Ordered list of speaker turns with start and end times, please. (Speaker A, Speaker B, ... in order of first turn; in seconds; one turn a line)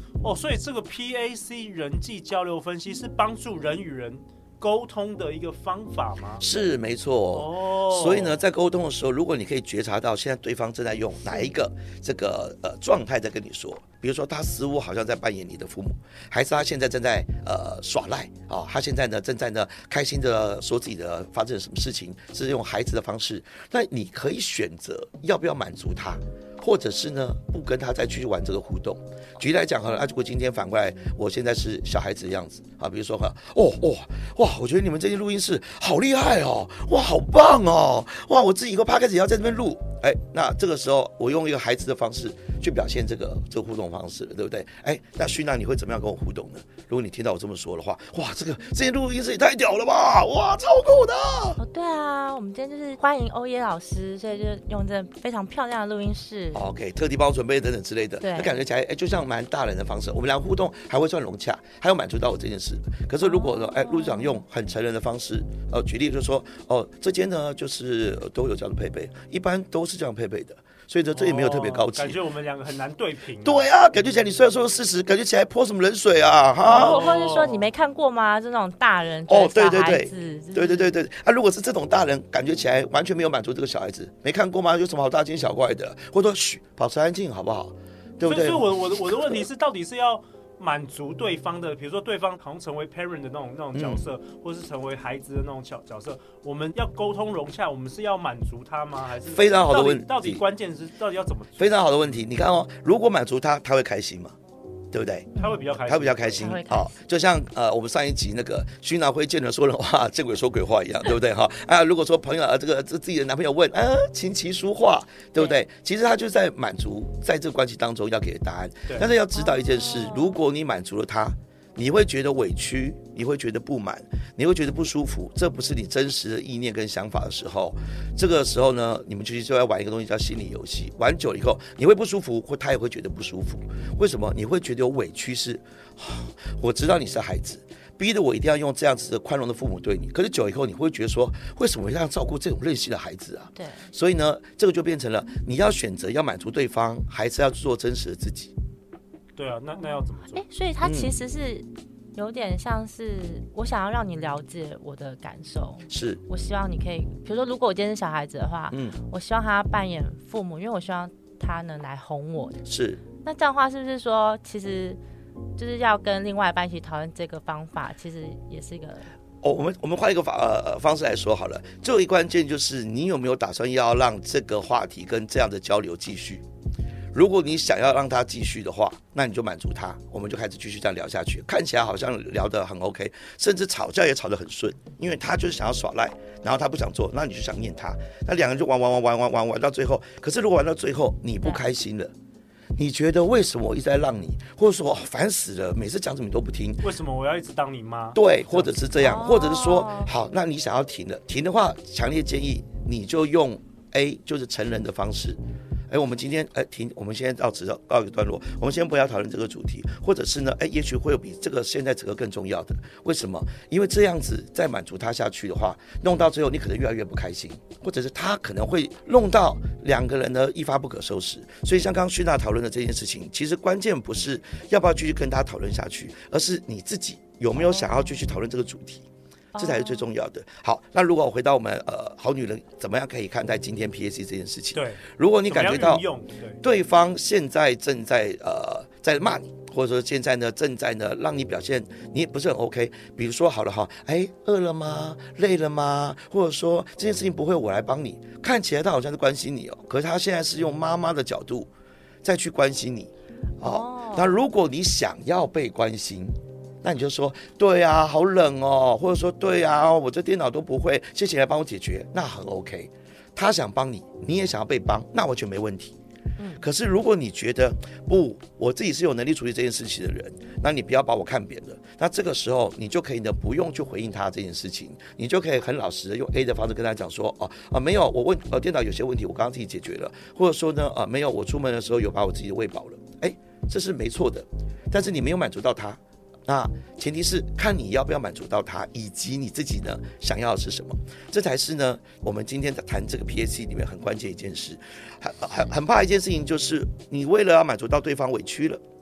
Speaker A: 0.2-6.4
Speaker B: 6.4-51.6
Speaker A: 7.3-8.4
Speaker C: 51.6-56.6
Speaker B: 56.5-72.2
Speaker C: 58.2-58.5
Speaker C: 63.2-64.4
Speaker A: 71.1-73.7
Speaker B: 73.4-77.1
Speaker C: 76.7-80.9
Speaker A: 76.7-77.7
Speaker B: 79.3-89.4
Speaker A: 88.2-101.9
Speaker B: 93.7-94.0
Speaker B: 99.3-100.4
Speaker B: 101.6-104.3
Speaker B: 104.9-105.3
Speaker A: 105.3-106.4
Speaker B: 105.9-148.5
Speaker C: 106.4-107.0
Speaker C: 119.3-120.3
Speaker C: 143.6-143.9
Speaker A: 149.3-150.4
Speaker C: 149.8-162.6
Speaker B: 150.8-151.2
Speaker B: 155.9-156.2
Speaker B: 158.7-159.0
Speaker B: 162.6-163.0
Speaker C: 163.2-165.0
Speaker C: 165.6-169.1
Speaker B: 169.4-176.4
Speaker B: 177.1-192.1
Speaker B: 192.8-196.9
Speaker A: 196.8-198.8
Speaker B: 198.1-236.0
Speaker C: 199.0-200.1
Speaker C: 227.6-227.9
Speaker C: 229.5-230.1
Speaker A: 234.7-236.6
Speaker B: 236.6-251.7
Speaker B: 252.2-265.9
Speaker C: 253.6-254.3
Speaker C: 266.4-266.6
Speaker B: 266.6-298.8